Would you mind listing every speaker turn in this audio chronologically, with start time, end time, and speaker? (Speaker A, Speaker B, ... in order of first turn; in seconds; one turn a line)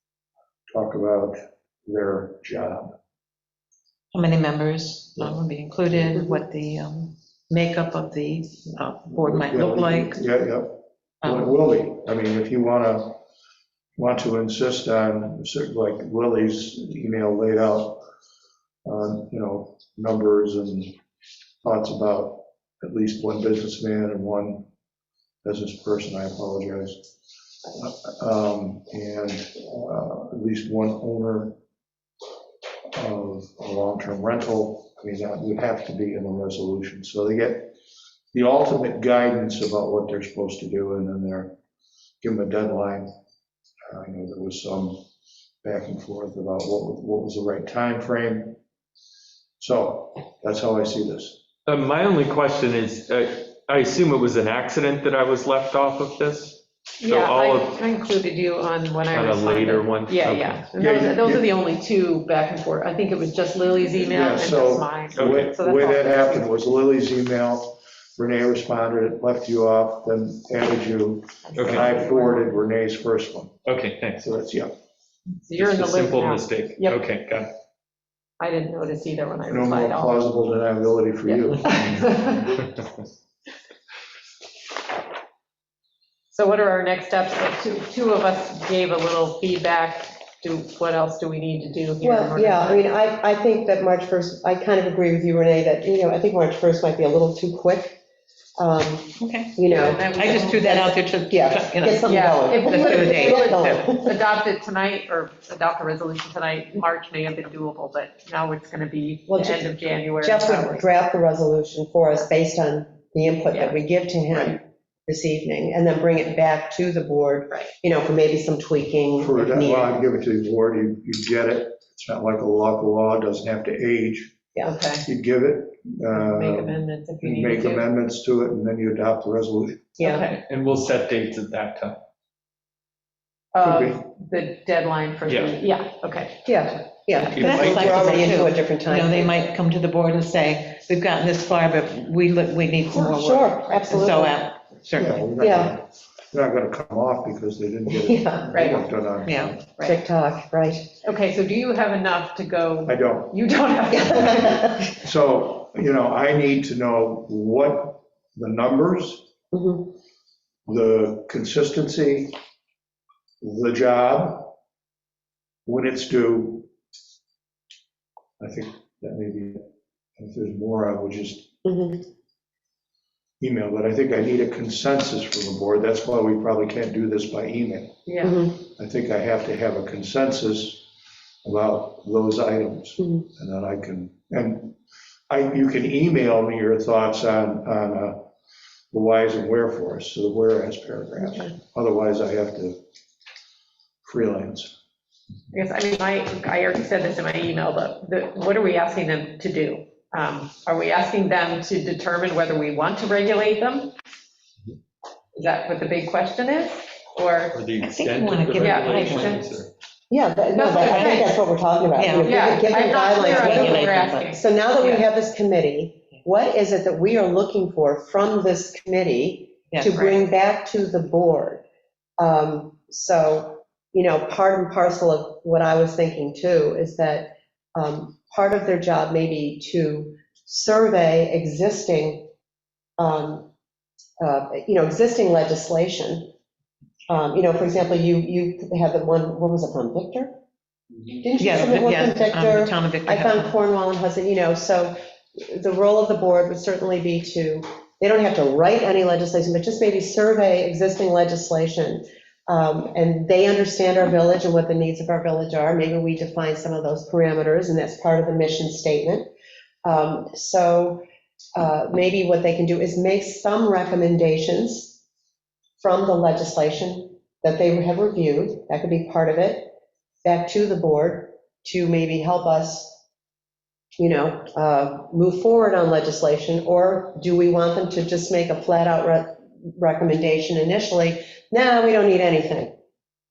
Speaker A: 0.7-2.9
Speaker B: 4.1-10.2
Speaker A: 9.3-13.2
Speaker B: 11.2-11.5
Speaker A: 14.0-18.0
Speaker A: 18.9-21.0
Speaker A: 21.6-24.7
Speaker A: 25.4-27.1
Speaker A: 27.8-31.6
Speaker A: 32.9-37.7
Speaker A: 38.3-41.5
Speaker A: 42.2-43.1
Speaker A: 43.9-45.0
Speaker A: 45.6-48.6
Speaker A: 49.6-51.4
Speaker C: 51.7-57.8
Speaker D: 57.0-66.5
Speaker C: 59.1-60.7
Speaker A: 60.8-61.5
Speaker A: 64.1-73.6
Speaker C: 65.1-65.6
Speaker D: 71.5-72.5
Speaker C: 71.6-71.9
Speaker C: 73.7-74.2
Speaker A: 74.2-74.7
Speaker D: 75.5-77.0
Speaker C: 75.5-77.5
Speaker D: 78.4-80.2
Speaker A: 79.5-82.1
Speaker D: 81.3-82.7
Speaker D: 86.3-92.9
Speaker E: 92.0-98.0
Speaker E: 98.6-104.1
Speaker B: 99.3-99.5
Speaker D: 99.7-100.8
Speaker B: 100.0-103.8
Speaker D: 102.0-110.9
Speaker E: 109.3-120.0
Speaker D: 113.5-113.8
Speaker A: 119.2-124.3
Speaker D: 124.7-125.1
Speaker A: 125.0-130.0
Speaker D: 126.1-127.9
Speaker E: 130.0-130.2
Speaker D: 130.0-130.3
Speaker C: 130.3-132.0
Speaker D: 133.5-136.4
Speaker A: 133.6-134.0
Speaker C: 135.2-135.6
Speaker E: 136.4-139.3
Speaker B: 137.2-145.2
Speaker C: 137.2-138.3
Speaker E: 142.9-144.4
Speaker A: 144.9-149.6
Speaker E: 145.4-145.8
Speaker E: 147.9-148.5
Speaker D: 148.5-148.8
Speaker B: 149.2-149.6
Speaker D: 149.6-150.0
Speaker E: 149.8-150.9
Speaker D: 151.0-154.7
Speaker A: 152.8-153.4
Speaker A: 154.0-159.2
Speaker E: 154.1-154.8
Speaker E: 159.5-159.9
Speaker A: 160.7-162.3
Speaker A: 163.4-164.5
Speaker A: 165.7-166.7
Speaker A: 168.4-169.6
Speaker A: 170.2-171.5
Speaker E: 171.6-172.0
Speaker A: 173.4-178.0
Speaker D: 178.1-178.4
Speaker E: 178.2-178.6
Speaker A: 178.5-180.9
Speaker A: 181.4-184.8
Speaker A: 185.3-188.2
Speaker A: 188.9-192.8
Speaker A: 194.0-194.7
Speaker D: 195.5-203.9
Speaker D: 205.3-207.6
Speaker C: 207.5-209.7
Speaker B: 207.8-209.4
Speaker D: 208.6-209.6
Speaker E: 210.1-221.6
Speaker D: 210.5-211.3
Speaker B: 210.8-211.3
Speaker B: 211.9-212.5
Speaker D: 212.2-215.1
Speaker B: 213.2-214.3
Speaker E: 222.2-232.3
Speaker E: 233.0-233.5
Speaker E: 234.2-236.3
Speaker E: 237.1-240.3
Speaker E: 241.1-259.3
Speaker B: 241.4-243.5
Speaker E: 259.8-261.0
Speaker E: 261.6-265.0
Speaker E: 265.8-273.0
Speaker E: 274.0-282.7